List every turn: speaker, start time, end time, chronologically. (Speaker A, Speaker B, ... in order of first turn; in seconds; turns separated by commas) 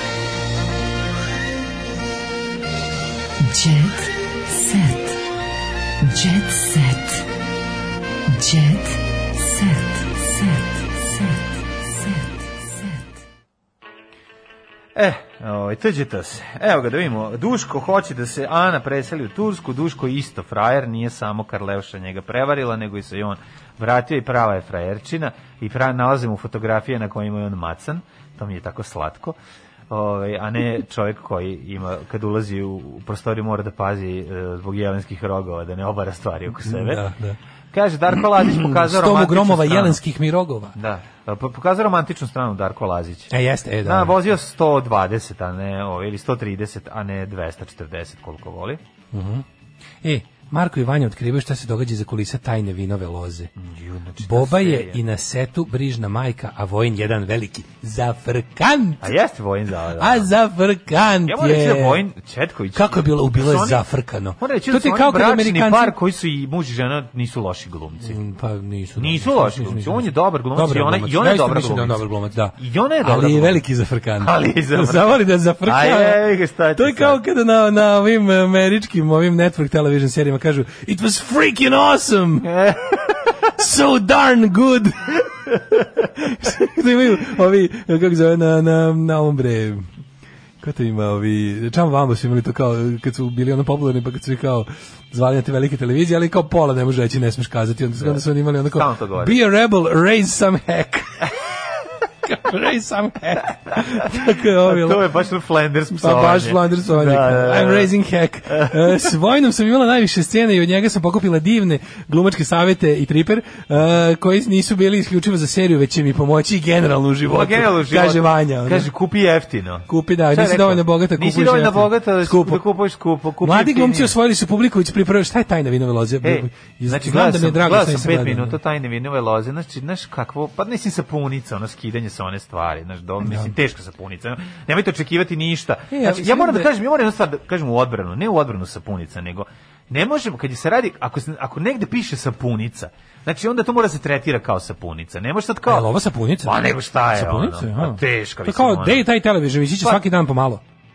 Speaker A: 3.4-5.1, Speaker A: 6.0-7.2, Speaker A: 8.3-11.4, Speaker A: 11.9-12.2, Speaker B: 14.9-29.4, Speaker B: 29.9-37.0, Speaker C: 36.6-37.4, Speaker B: 37.7-40.0, Speaker C: 38.5-40.8, Speaker B: 40.8-43.3, Speaker C: 43.3-44.2, Speaker B: 43.8-48.8, Speaker C: 49.1-49.5, Speaker C: 50.0-53.5, Speaker B: 53.6-55.0, Speaker C: 54.2-59.2, Speaker B: 59.0-60.3, Speaker C: 60.0-62.0, Speaker B: 61.2-63.9, Speaker C: 62.8-66.0, Speaker B: 64.4-68.2, Speaker C: 68.0-76.2, Speaker B: 69.0-72.0, Speaker B: 72.6-73.6, Speaker B: 74.2-77.2, Speaker C: 76.8-82.5, Speaker B: 82.4-83.3, Speaker C: 83.5-85.1, Speaker C: 86.2-89.9, Speaker C: 90.6-101.2, Speaker B: 98.0-99.4, Speaker C: 102.2-105.0, Speaker B: 104.6-107.9, Speaker C: 105.9-118.9, Speaker B: 108.5-109.1, Speaker B: 117.3-124.2, Speaker C: 119.9-122.7, Speaker C: 123.4-128.6, Speaker B: 126.2-145.9, Speaker C: 133.2-133.5, Speaker C: 135.9-136.7, Speaker C: 145.7-150.6, Speaker B: 146.4-149.1